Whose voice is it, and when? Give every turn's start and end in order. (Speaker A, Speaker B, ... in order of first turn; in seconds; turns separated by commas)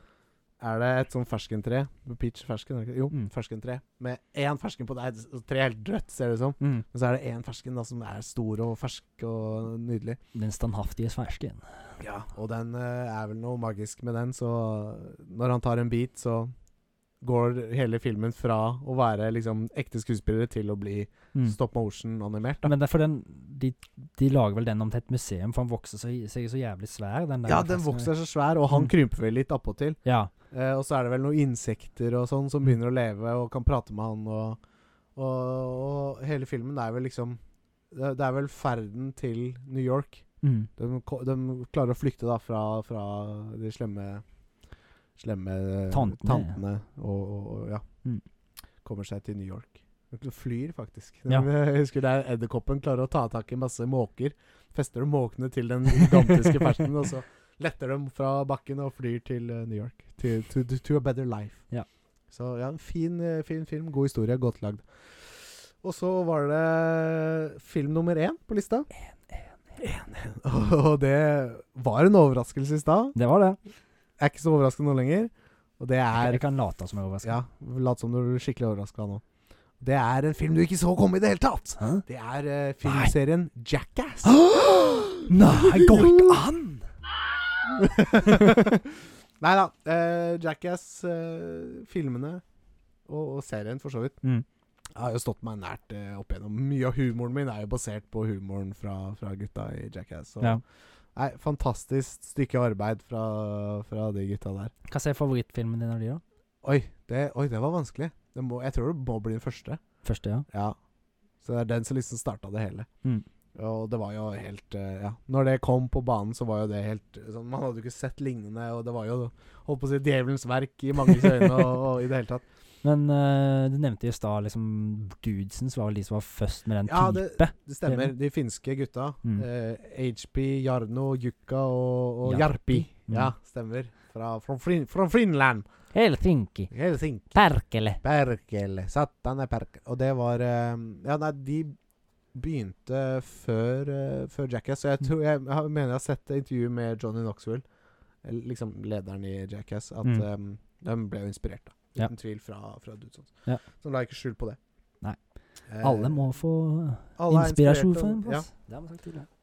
Speaker A: 0.6-10.2, Speaker B: 10.3-11.9, Speaker A: 12.0-16.5, Speaker A: 17.2-22.7, Speaker B: 22.6-28.1, Speaker A: 27.5-30.0, Speaker B: 30.0-30.3, Speaker A: 30.5-34.6, Speaker A: 35.1-37.4, Speaker A: 37.9-40.2, Speaker B: 40.4-40.7, Speaker A: 40.8-44.2, Speaker A: 45.2-47.8, Speaker B: 45.9-46.6, Speaker A: 48.8-61.6, Speaker A: 62.3-68.9, Speaker A: 69.8-73.1, Speaker B: 73.1-73.6, Speaker A: 74.2-76.4, Speaker B: 76.1-77.4, Speaker A: 77.2-79.2, Speaker A: 79.8-86.4, Speaker B: 82.8-83.1, Speaker B: 84.2-86.8, Speaker A: 87.6-92.4, Speaker B: 88.2-88.7, Speaker A: 93.1-94.2, Speaker A: 94.9-100.6, Speaker A: 101.1-104.7, Speaker B: 104.9-106.2, Speaker A: 106.6-109.8, Speaker B: 110.0-110.5, Speaker A: 110.5-110.8, Speaker A: 111.4-112.9, Speaker A: 113.5-122.4, Speaker B: 122.8-128.1, Speaker A: 126.8-135.6, Speaker B: 132.2-133.3, Speaker B: 135.9-136.7, Speaker A: 136.7-137.4, Speaker B: 137.3-138.0, Speaker A: 138.0-141.8, Speaker A: 142.3-147.6, Speaker A: 148.2-154.6, Speaker A: 155.7-156.3, Speaker B: 155.8-159.3, Speaker A: 157.2-158.5